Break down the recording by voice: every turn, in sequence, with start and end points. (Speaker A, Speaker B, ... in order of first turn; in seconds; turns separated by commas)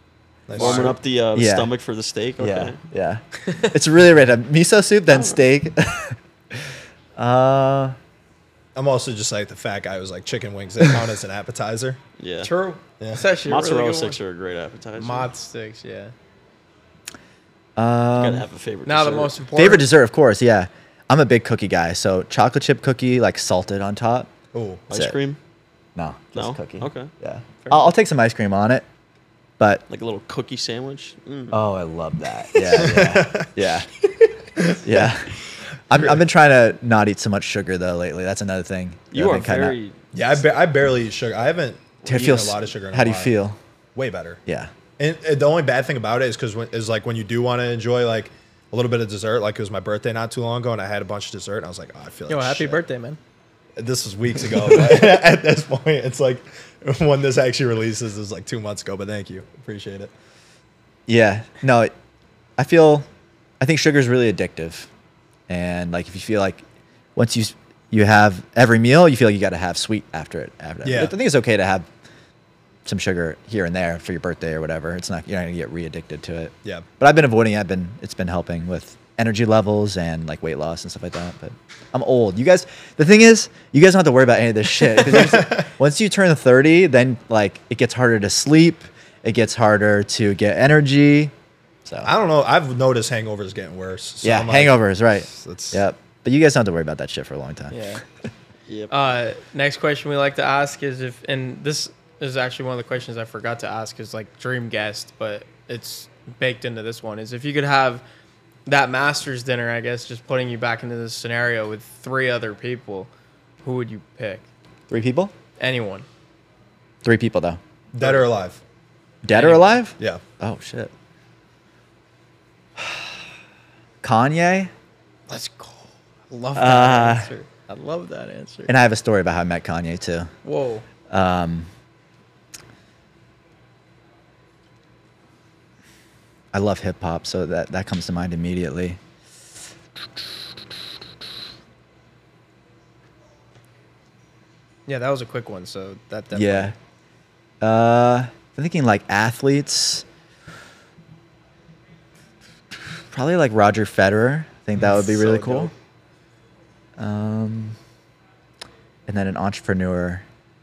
Speaker A: 0.5-1.0, Speaker B: 0.6-2.8, Speaker C: 0.6-1.7, Speaker C: 2.4-8.0, Speaker D: 3.4-3.7, Speaker A: 8.8-12.0, Speaker B: 12.2-12.5, Speaker D: 12.4-14.2, Speaker B: 13.4-15.3, Speaker D: 15.0-16.1, Speaker C: 17.8-18.5, Speaker B: 18.2-19.4, Speaker D: 18.9-19.9, Speaker C: 19.5-24.3, Speaker A: 24.5-24.9, Speaker C: 24.9-25.2, Speaker B: 24.9-25.4, Speaker C: 26.0-28.9, Speaker B: 26.4-27.1, Speaker B: 29.9-31.6, Speaker C: 31.5-33.9, Speaker A: 32.7-33.5, Speaker A: 34.6-35.1, Speaker C: 34.8-39.8, Speaker B: 39.1-40.0, Speaker A: 40.1-43.3, Speaker C: 42.1-43.6, Speaker A: 44.0-44.4, Speaker A: 45.0-52.8, Speaker D: 52.3-53.2, Speaker A: 53.8-60.1, Speaker C: 61.1-61.9, Speaker C: 62.6-63.0, Speaker C: 63.6-64.9, Speaker C: 65.5-66.6, Speaker C: 67.2-71.9, Speaker A: 70.8-71.1, Speaker C: 72.9-91.3, Speaker A: 84.8-85.7, Speaker C: 91.8-92.1, Speaker A: 92.0-94.8, Speaker C: 94.2-97.8, Speaker A: 95.3-95.8, Speaker D: 97.7-98.0, Speaker D: 98.9-108.0, Speaker D: 108.7-113.1, Speaker D: 113.6-114.5, Speaker C: 114.9-115.3, Speaker D: 115.6-116.1, Speaker C: 117.0-117.6, Speaker A: 117.9-118.6, Speaker C: 119.2-120.9, Speaker D: 119.3-119.7, Speaker C: 122.8-123.2, Speaker C: 124.0-124.7, Speaker D: 125.3-128.7, Speaker C: 126.6-127.3, Speaker C: 128.7-130.3, Speaker D: 130.4-130.9, Speaker C: 131.1-131.7, Speaker C: 136.5-139.0, Speaker D: 144.9-146.7, Speaker C: 146.3-146.8, Speaker C: 147.6-150.1, Speaker C: 153.1-155.7, Speaker D: 154.9-155.7, Speaker C: 157.0-157.8, Speaker C: 159.1-160.2